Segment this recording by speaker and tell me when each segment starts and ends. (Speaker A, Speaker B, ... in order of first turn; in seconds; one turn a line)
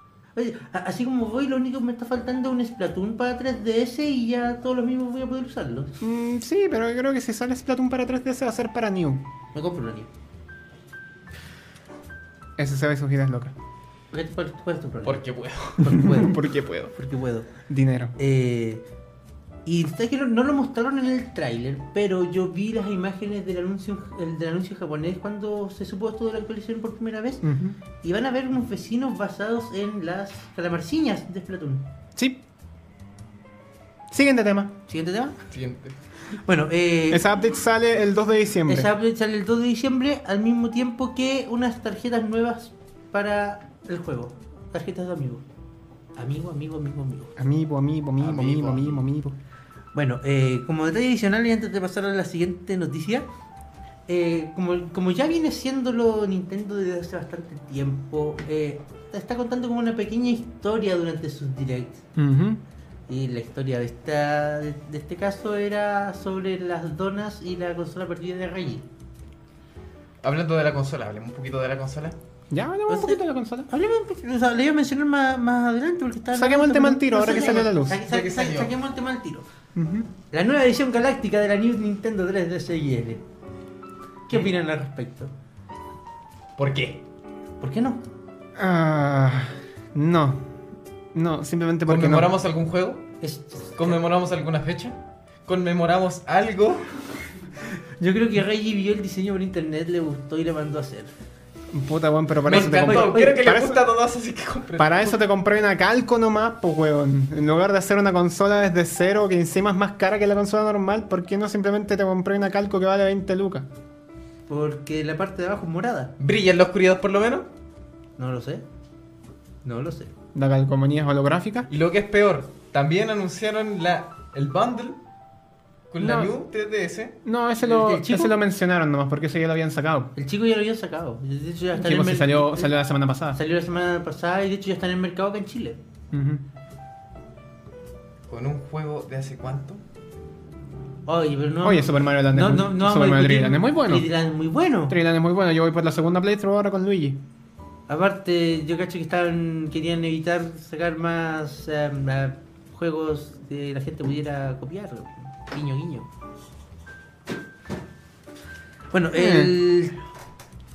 Speaker A: 0.3-6.0
Speaker B: 6.0-9.3
Speaker A: 9.5-10.1
Speaker B: 12.6-13.5
Speaker A: 14.1-15.2
Speaker C: 15.0-15.9
Speaker A: 15.8-17.5
Speaker B: 15.9-16.9
Speaker B: 17.6-18.1
Speaker A: 18.2-18.8
Speaker A: 19.6-27.4
Speaker B: 27.4-27.8
Speaker A: 28.0-31.9
Speaker B: 32.1-32.4
Speaker B: 34.1-34.8
Speaker A: 34.9-35.4
Speaker C: 35.5-36.0
Speaker A: 36.4-37.2
Speaker B: 37.1-38.9
Speaker A: 38.7-45.4
Speaker A: 46.1-47.3
Speaker B: 47.4-49.4
Speaker C: 48.2-49.0
Speaker A: 49.9-53.3
Speaker A: 54.1-62.0
Speaker B: 62.1-62.6
Speaker A: 63.1-68.8
Speaker C: 70.2-72.2
Speaker B: 72.5-73.7
Speaker A: 72.9-79.5
Speaker B: 76.3-78.0
Speaker C: 78.0-78.7
Speaker B: 79.7-80.1
Speaker A: 80.3-83.2
Speaker A: 84.3-85.3
Speaker C: 86.6-87.0
Speaker A: 87.6-88.0
Speaker B: 88.6-90.5
Speaker B: 91.1-92.3
Speaker C: 91.8-93.1
Speaker A: 93.2-94.0
Speaker C: 93.8-97.0
Speaker A: 98.0-101.1
Speaker B: 101.7-103.9
Speaker C: 102.4-105.1
Speaker A: 102.5-103.4
Speaker B: 104.8-113.7
Speaker A: 114.5-116.1
Speaker C: 116.2-117.5
Speaker A: 118.2-118.6
Speaker A: 119.6-120.1
Speaker B: 120.3-121.7
Speaker C: 121.7-125.0
Speaker C: 125.9-127.9
Speaker B: 126.0-126.3
Speaker B: 127.2-130.1
Speaker A: 127.7-128.3
Speaker A: 130.2-132.7
Speaker B: 131.7-133.4
Speaker A: 133.3-135.8
Speaker B: 136.1-136.4
Speaker C: 138.3-139.8
Speaker A: 141.1-144.9
Speaker B: 141.6-144.1
Speaker B: 144.9-147.2
Speaker A: 147.9-156.1
Speaker A: 158.9-160.0
Speaker B: 159.2-159.5